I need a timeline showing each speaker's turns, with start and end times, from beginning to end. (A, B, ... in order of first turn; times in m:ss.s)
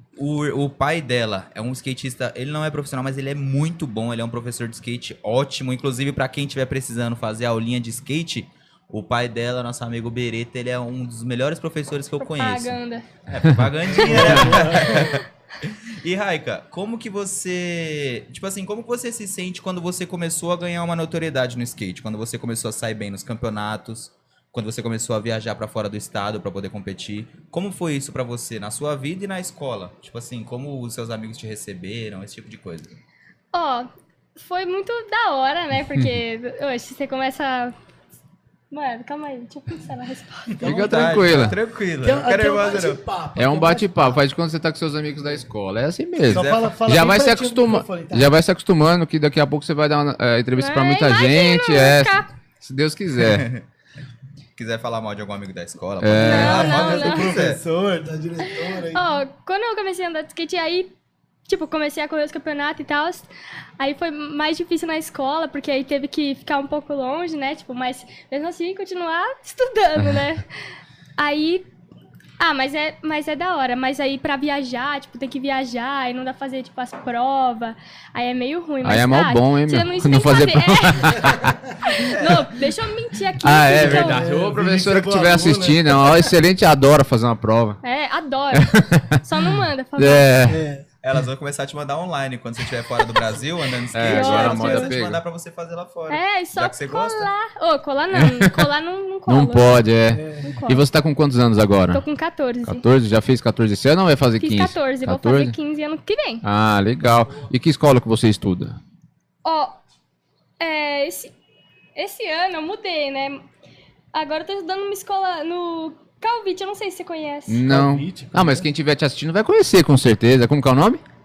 0:00.2-0:33.0 A
0:12.2-0:13.1 B
0:13.9-0:15.1 C
0:14.1-0:15.2 B
0:33.5-0:37.8 B
0:38.7-0:40.5 B
0:40.5-0:41.4 C
0:40.6-0:43.0 A
0:40.6-0:41.6 D
0:42.0-0:44.2 C
0:43.4-0:53.5 D
0:46.3-0:46.7 A
0:46.3-0:48.3 C
0:50.6-0:52.3 B
0:53.2-0:53.6 A
0:54.6-0:57.6 A
0:56.0-0:56.8 D
0:56.2-0:57.4 B
0:56.3-0:59.1 C
0:58.5-1:00.9 B
1:01.5-1:10.4 B
1:11.2-1:11.6 B
1:12.4-1:24.2 B
1:18.8-1:21.6 D
1:22.0-1:22.6 A
1:23.4-1:27.8 D
1:23.7-1:26.4 C
1:27.8-1:30.5 B
1:28.5-1:30.6 D
1:30.5-1:30.9 C
1:31.0-1:37.3 A
1:33.0-1:33.3 B
1:33.9-1:35.2 D
1:34.1-1:35.0 B
1:36.1-1:39.8 B
1:38.1-1:38.7 D
1:39.3-1:42.0 D
1:40.1-1:40.5 C
1:40.4-1:40.8 B
1:41.9-1:42.8 B
1:42.7-1:45.6 D
1:44.4-1:46.4 B
1:46.4-1:48.8 D
1:49.4-1:49.8 B
1:50.6-1:51.3 B
1:52.0-1:53.4 B
1:54.1-1:57.6 B
1:57.5-2:01.0 D
1:57.7-1:58.7 C